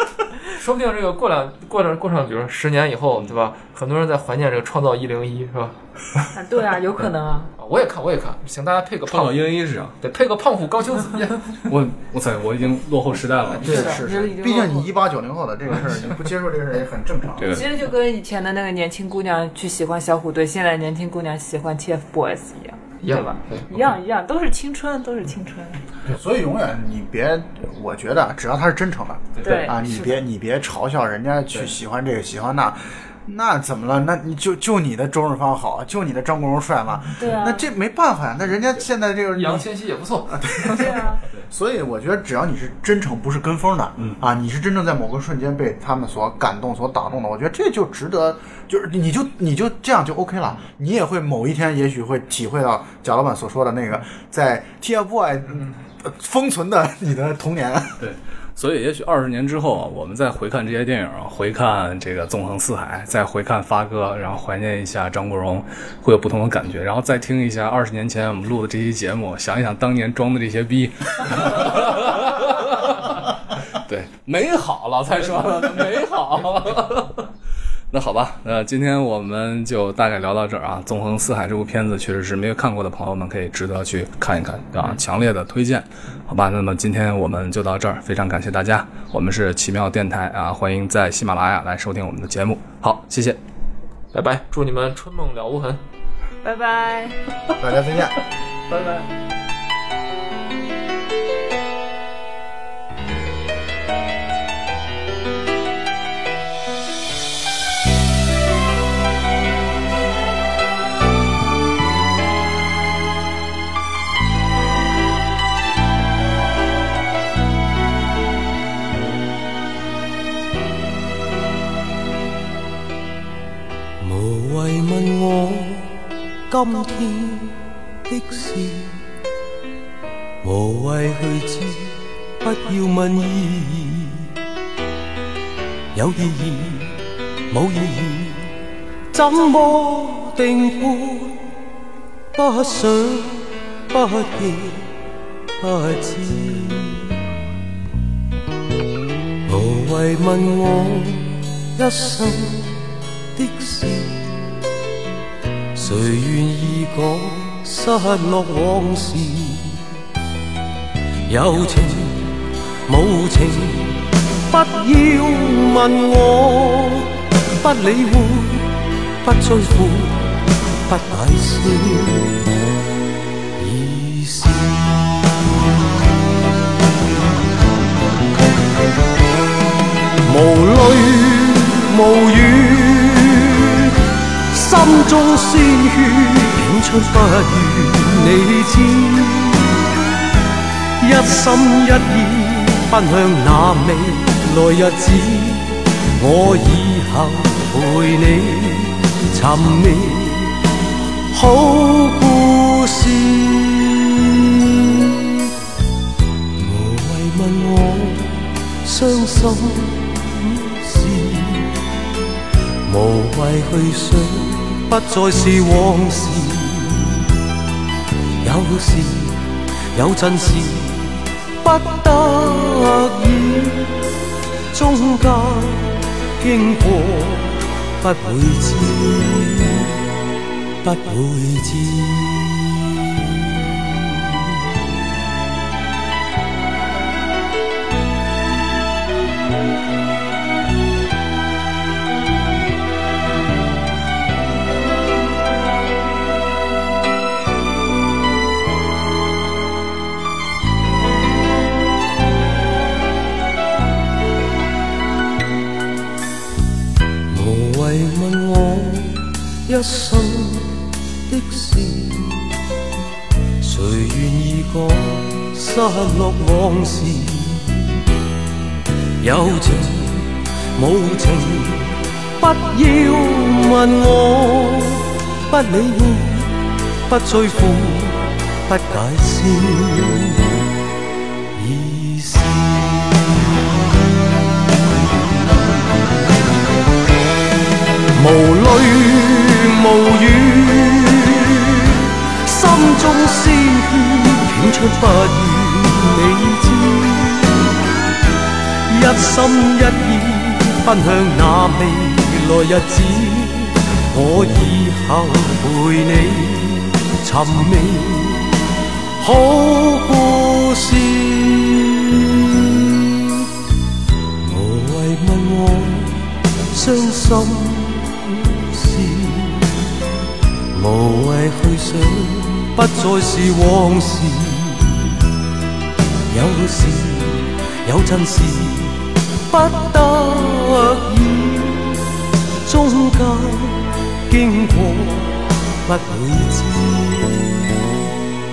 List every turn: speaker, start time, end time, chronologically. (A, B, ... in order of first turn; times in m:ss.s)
0:00.4-0:06.3 A
0:06.3-0:07.5 B
0:07.6-0:09.5 A
0:09.1-0:10.0 C
0:10.0-0:11.6 A
0:11.5-0:14.1 C
0:13.6-0:17.6 D
0:13.6-0:15.0 B
0:17.4-0:17.7 C
0:17.5-0:25.8 B
0:23.0-0:23.9 A
0:26.1-0:39.7 D
0:29.4-0:29.7 C
0:29.4-0:30.2 B
0:37.2-0:37.6 B
0:39.3-0:41.1 A
0:40.3-0:58.0 D
0:40.7-0:41.2 B
0:58.0-1:17.3 C
1:17.9-1:33.4 C
1:34.1-1:35.8 A
1:36.4-1:37.2 B
1:37.6-1:38.2 D
1:38.7-1:39.0 B
2:04.0-2:09.0 E
2:10.4-2:14.3 E
2:15.9-2:18.6 E
2:19.1-2:21.5 E
2:22.3-2:24.9 E
2:25.6-2:27.2 E
2:29.5-2:34.3 E
2:35.7-2:39.8 E
2:41.3-2:50.3 E
2:50.8-2:52.5 E
2:53.6-2:55.3 E
3:00.2-3:03.9 E
3:04.5-3:09.8 E
3:11.0-3:20.6 E
3:21.3-3:25.5 E
3:26.6-3:31.8 E
3:32.8-3:37.2 E
3:38.4-3:44.0 E
3:44.7-3:50.0 E
3:50.8-3:54.6 E
4:17.3-4:22.5 E
4:23.6-4:28.0 E
4:29.2-4:40.6 E
4:41.6-4:43.4 E
4:45.0-4:45.8 E
4:48.1-4:57.6 E
4:58.9-5:08.7 E
5:09.2-5:13.5 E
5:14.4-5:19.8 E
5:20.7-5:25.2 E
5:26.3-5:32.1 E
5:32.6-5:38.1 E